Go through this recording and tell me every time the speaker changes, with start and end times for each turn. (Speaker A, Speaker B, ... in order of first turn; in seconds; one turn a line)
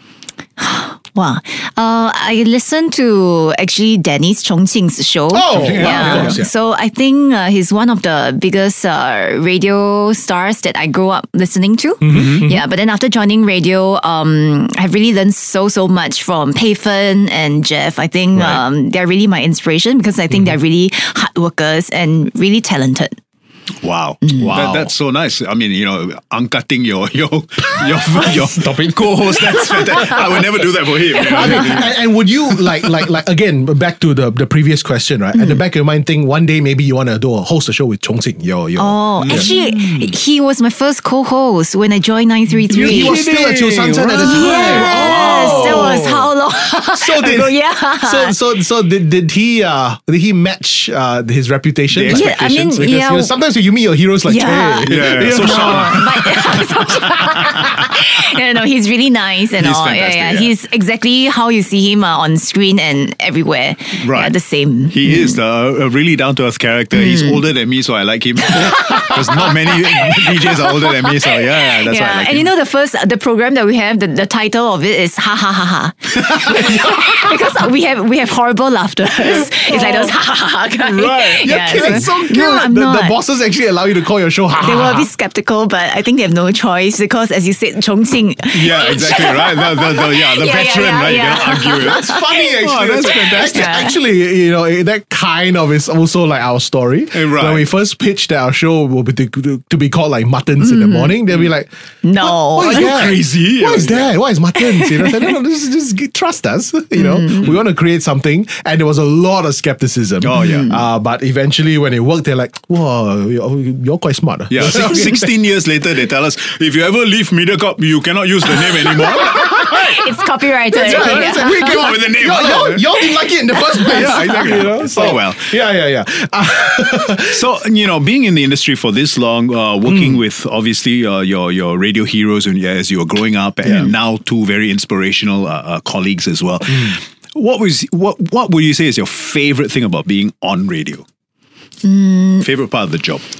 Speaker A: 0.6-23.1
Speaker B: 5.3-6.5
Speaker C: 5.5-6.4
Speaker B: 12.0-12.6
Speaker C: 12.1-12.5
Speaker C: 23.8-32.9
Speaker A: 24.2-24.7
Speaker B: 24.5-24.9
Speaker B: 27.7-30.3
Speaker A: 29.9-30.2
Speaker A: 31.1-31.9
Speaker B: 31.3-39.5
Speaker A: 35.3-35.6
Speaker A: 38.8-43.2
Speaker C: 39.2-40.1
Speaker C: 42.7-46.0
Speaker B: 42.7-46.3
Speaker A: 44.2-48.3
Speaker B: 46.9-56.5
Speaker C: 51.9-52.9
Speaker A: 52.1-53.3
Speaker A: 54.2-65.4
Speaker C: 54.9-57.9
Speaker C: 59.6-60.5
Speaker C: 64.0-64.3
Speaker C: 64.9-72.5
Speaker A: 66.9-67.4
Speaker A: 68.4-83.2
Speaker B: 76.4-77.3
Speaker B: 79.4-80.1
Speaker C: 80.8-82.1
Speaker B: 81.2-85.1
Speaker A: 84.6-92.3
Speaker C: 88.5-93.8
Speaker B: 91.7-115.3
Speaker A: 93.2-94.0
Speaker C: 97.1-97.7
Speaker A: 100.6-101.2
Speaker A: 102.0-102.9
Speaker C: 102.6-104.1
Speaker A: 104.6-105.3
Speaker A: 106.9-107.6
Speaker C: 110.2-110.7
Speaker A: 110.3-110.8
Speaker C: 114.5-120.0
Speaker A: 119.0-121.9
Speaker B: 119.0-119.9
Speaker B: 120.7-127.5
Speaker C: 120.8-122.9
Speaker A: 123.8-124.6
Speaker C: 123.8-125.5
Speaker C: 127.2-141.0
Speaker B: 129.9-130.2
Speaker A: 141.8-142.5
Speaker C: 142.4-143.2